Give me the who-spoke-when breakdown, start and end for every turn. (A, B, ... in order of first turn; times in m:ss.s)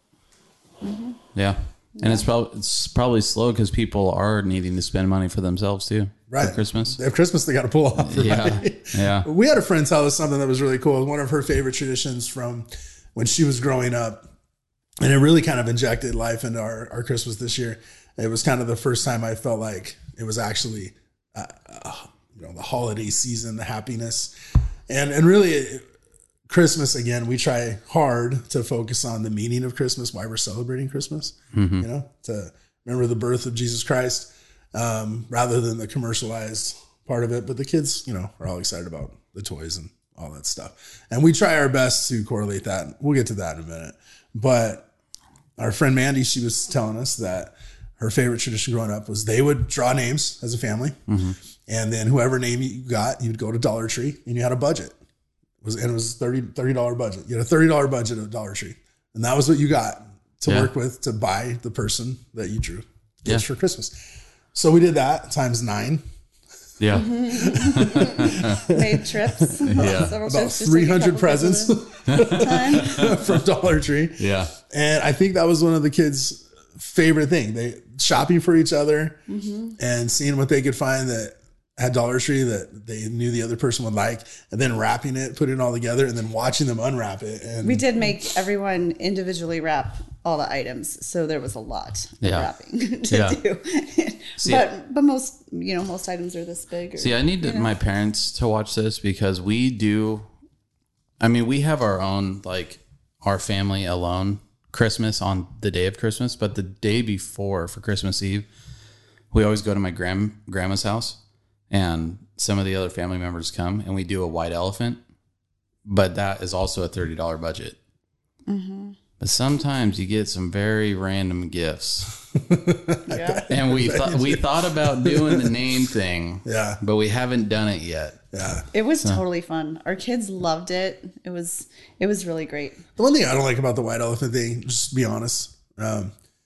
0:00.8-0:01.2 A
0:01.4-0:07.0 B
0:02.0-0:02.2 A
0:06.3-0:14.2 C
0:08.0-0:09.3 B
0:15.0-0:24.3 C
0:24.9-0:25.8 C
0:26.5-0:44.9 C
0:31.5-0:31.9 B
0:45.6-0:51.0 C
0:51.1-0:51.4 B
0:51.7-0:55.0 C
0:55.6-1:04.0 C
1:00.5-1:00.7 B
1:04.5-1:06.0 C
1:06.8-1:08.6 B
1:06.9-1:13.0 A
1:07.3-1:19.2 C
1:09.6-1:10.2 B
1:12.1-1:13.2 B
1:14.2-1:14.5 B
1:19.3-1:19.8 A
1:19.8-1:27.9 C
1:27.6-1:37.7 A
1:32.2-1:32.5 B
1:33.1-1:33.4 B
1:37.0-1:40.3 B
1:41.2-1:48.5 B
1:49.3-1:51.2 B
1:51.7-1:55.0 B
1:55.8-1:57.8 B
1:58.5-1:59.0 A
1:59.2-2:02.1 B
2:02.3-2:05.6 C
2:03.1-2:03.4 A
2:03.5-2:08.2 B
2:06.4-2:06.8 C
2:08.3-2:08.6 C
2:08.7-2:12.8 A
2:13.0-2:16.1 C